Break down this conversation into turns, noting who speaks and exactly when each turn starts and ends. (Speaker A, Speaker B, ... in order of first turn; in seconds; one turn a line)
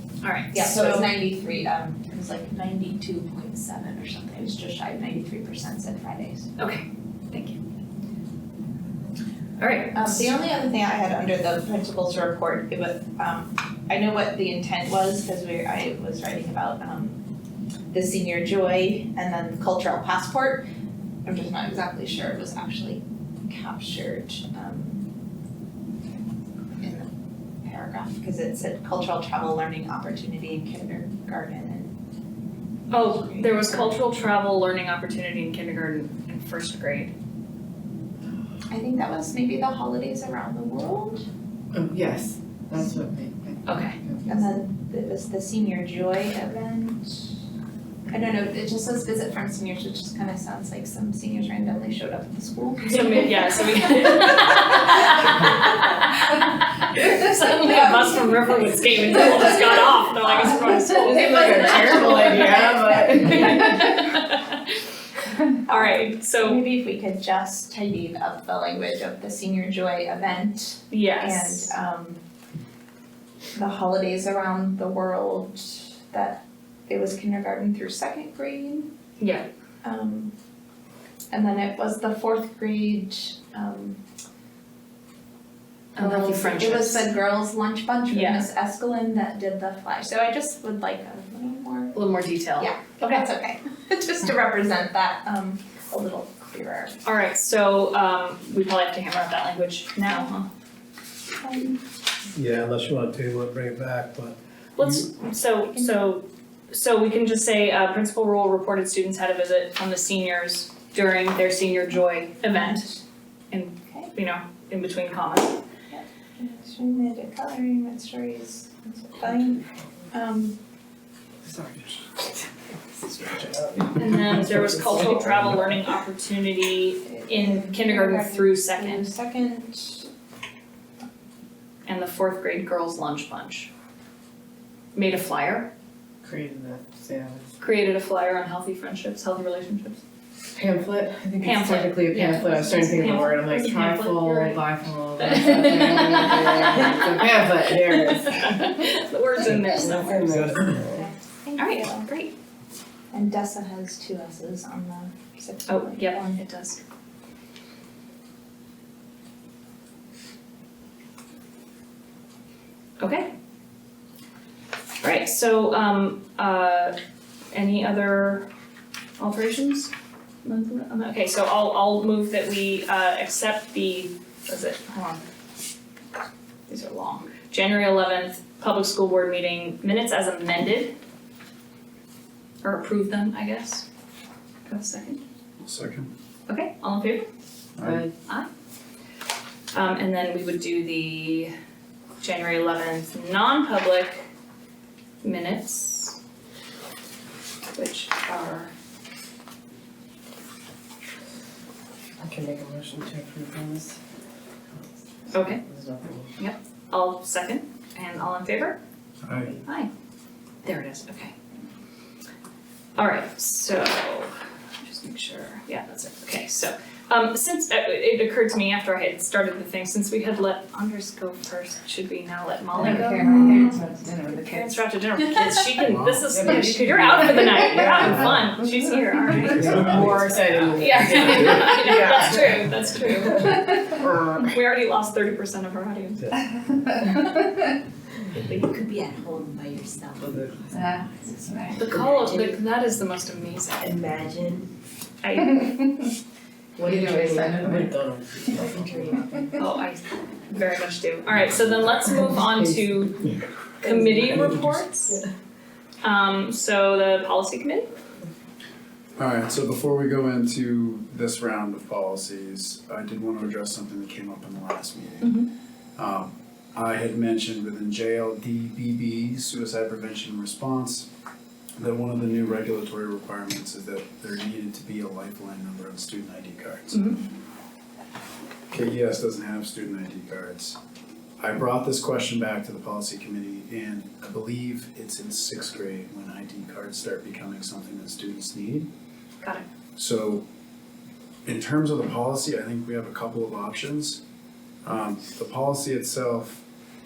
Speaker A: 0.2-1.1
Speaker B: 0.5-6.5
Speaker A: 6.6-7.6
Speaker A: 9.6-10.3
Speaker B: 9.9-17.2
Speaker B: 17.9-20.6
Speaker B: 21.2-25.1
Speaker B: 26.8-27.1
Speaker B: 27.6-31.9
Speaker A: 32.9-37.1
Speaker B: 33.1-33.9
Speaker B: 38.7-41.2
Speaker C: 41.7-44.6
Speaker A: 43.6-43.9
Speaker B: 44.2-47.4
Speaker B: 48.1-55.3
Speaker A: 52.9-62.6
Speaker B: 57.0-58.1
Speaker B: 60.5-63.9
Speaker C: 61.0-64.0
Speaker A: 63.2-64.8
Speaker A: 65.7-66.6
Speaker B: 65.7-72.2
Speaker A: 70.9-71.8
Speaker B: 73.5-78.9
Speaker A: 79.2-79.5
Speaker B: 79.8-80.3
Speaker B: 81.3-84.0
Speaker A: 86.0-87.1
Speaker B: 86.0-92.0
Speaker A: 88.1-88.5
Speaker A: 91.9-93.2
Speaker B: 92.6-97.0
Speaker A: 97.0-100.5
Speaker B: 101.4-101.8
Speaker D: 102.3-105.0
Speaker A: 104.8-113.0
Speaker A: 113.5-115.6
Speaker B: 115.9-120.6
Speaker C: 121.5-123.9
Speaker A: 123.9-129.1
Speaker B: 127.0-130.1
Speaker A: 131.9-133.7
Speaker A: 134.9-135.7
Speaker C: 136.2-137.5
Speaker A: 137.6-140.0
Speaker C: 140.5-148.8
Speaker A: 141.4-144.6
Speaker A: 145.2-150.5
Speaker C: 149.5-151.1
Speaker B: 150.9-152.1
Speaker A: 151.6-152.3
Speaker B: 153.1-156.4
Speaker A: 155.7-156.8
Speaker A: 163.0-163.3
Speaker A: 165.0-166.9
Speaker A: 167.5-168.5
Speaker A: 169.2-169.9
Speaker A: 170.4-175.2
Speaker A: 176.7-180.9
Speaker A: 182.6-183.8
Speaker A: 184.7-185.2
Speaker E: 185.6-186.1
Speaker A: 186.5-187.3
Speaker E: 187.8-188.0
Speaker C: 187.8-188.1
Speaker A: 189.7-191.5
Speaker A: 192.2-194.3
Speaker A: 195.2-196.2
Speaker A: 197.7-198.7
Speaker C: 202.2-204.0
Speaker C: 204.7-206.3
Speaker A: 205.3-205.6
Speaker A: 206.4-208.8
Speaker E: 209.2-209.5
Speaker A: 209.6-209.9
Speaker A: 210.6-211.3
Speaker A: 213.0-223.5
Speaker B: 222.8-224.6
Speaker F: 222.8-224.6
Speaker A: 224.4-230.2
Speaker E: 225.9-226.2
Speaker C: 226.3-228.3
Speaker C: 229.5-232.6
Speaker A: 230.7-236.3
Speaker C: 233.3-234.5
Speaker F: 238.4-242.6
Speaker C: 240.2-240.7
Speaker A: 241.8-243.9
Speaker F: 243.8-244.7
Speaker A: 245.2-246.0
Speaker C: 246.8-249.5
Speaker F: 246.8-247.9
Speaker F: 248.7-249.3
Speaker A: 249.6-253.2
Speaker C: 252.3-253.3
Speaker A: 253.8-255.2
Speaker C: 253.8-254.6
Speaker A: 256.0-257.9
Speaker E: 259.2-265.4
Speaker A: 265.2-265.5
Speaker E: 265.9-271.1
Speaker E: 271.8-277.1
Speaker A: 276.9-277.2
Speaker E: 278.7-280.8
Speaker E: 281.4-288.9
Speaker E: 289.9-290.4
Speaker E: 291.4-294.2
Speaker E: 294.8-296.6